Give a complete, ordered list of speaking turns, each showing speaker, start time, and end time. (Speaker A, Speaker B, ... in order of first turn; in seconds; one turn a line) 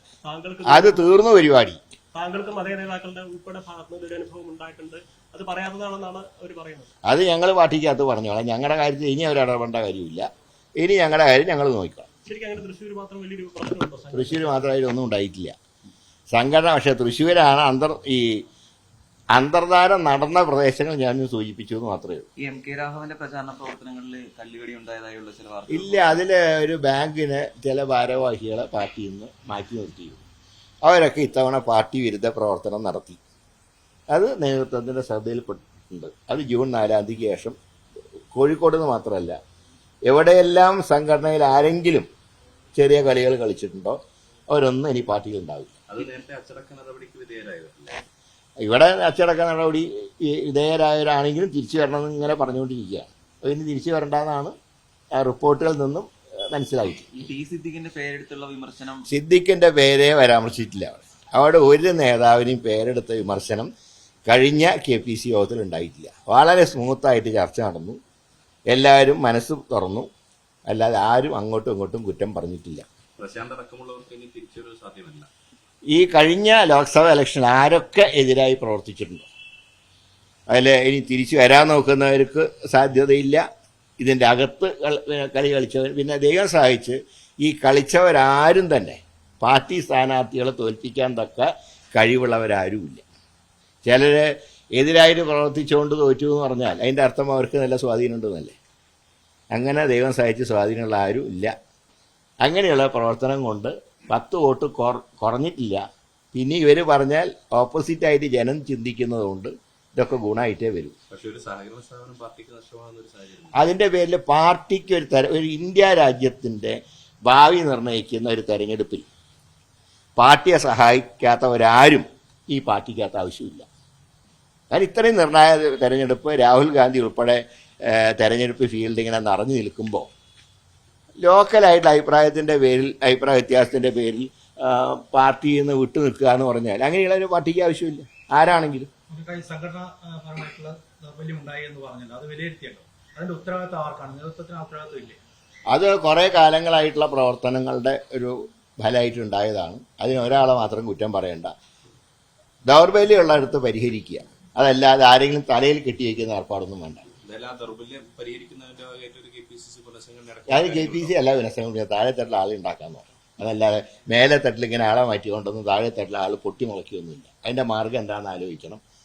Speaker A: 0.2-1.1
Speaker B: 0.7-1.8
Speaker A: 2.1-6.9
Speaker B: 7.1-10.3
Speaker B: 10.8-12.1
Speaker A: 12.2-14.7
Speaker B: 14.1-15.5
Speaker B: 16.3-18.4
Speaker B: 19.3-22.2
Speaker C: 22.4-25.8
Speaker B: 25.7-30.2
Speaker B: 30.8-33.2
Speaker B: 34.1-37.5
Speaker B: 38.3-39.4
Speaker B: 40.1-42.1
Speaker B: 42.7-44.0
Speaker B: 44.5-45.7
Speaker D: 45.9-48.0
Speaker B: 48.6-54.5
Speaker B: 55.1-57.2
Speaker C: 57.1-59.1
Speaker B: 59.1-63.7
Speaker B: 64.3-68.0
Speaker B: 68.7-70.1
Speaker B: 70.7-72.8
Speaker D: 73.2-75.3
Speaker B: 75.9-79.3
Speaker B: 80.5-83.4
Speaker B: 84.0-93.0
Speaker B: 93.8-98.5
Speaker B: 99.5-101.5
Speaker B: 102.4-105.8
Speaker B: 106.3-110.9
Speaker D: 111.1-113.6
Speaker B: 113.5-119.1
Speaker B: 120.2-123.7
Speaker B: 124.7-130.1
Speaker B: 131.2-138.9
Speaker E: 139.1-145.2
Speaker B: 145.7-151.5
Speaker B: 152.7-157.0
Speaker D: 157.2-161.2
Speaker B: 160.5-168.8